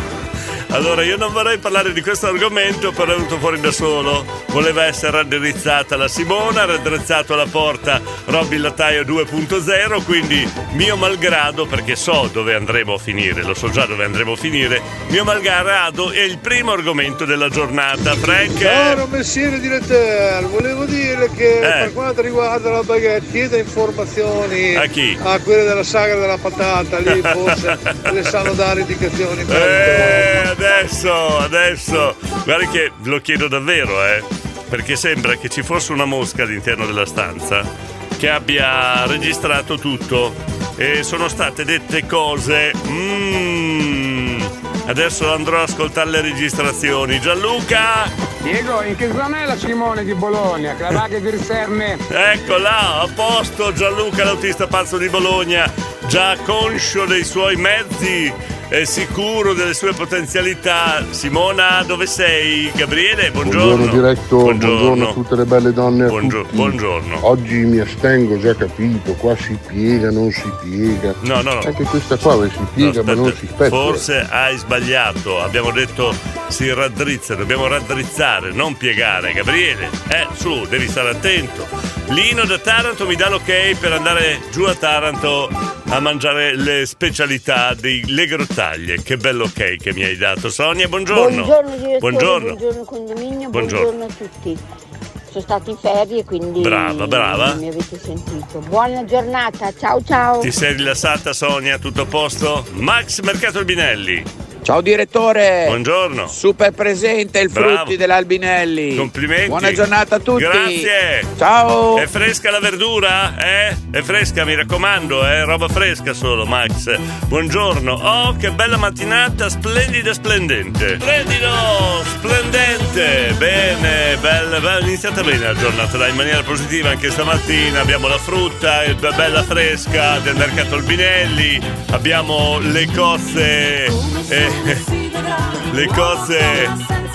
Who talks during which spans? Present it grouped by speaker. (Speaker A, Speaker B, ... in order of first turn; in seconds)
Speaker A: 0.7-19.0, 21.6-21.9, 24.8-25.2, 27.1-28.3, 29.5-48.1, 52.1-65.2, 66.1-67.2, 71.2-92.6, 93.5-93.9, 96.6-97.6, 100.4-104.3, 105.7-106.3, 107.5-108.0, 108.9-111.3, 111.9-134.8, 135.7-136.8
Speaker B: 18.6-30.4
Speaker C: 48.4-52.0
Speaker D: 63.4-74.0
Speaker E: 91.1-94.6, 95.3-100.5
Speaker F: 104.7-105.8, 106.3-112.1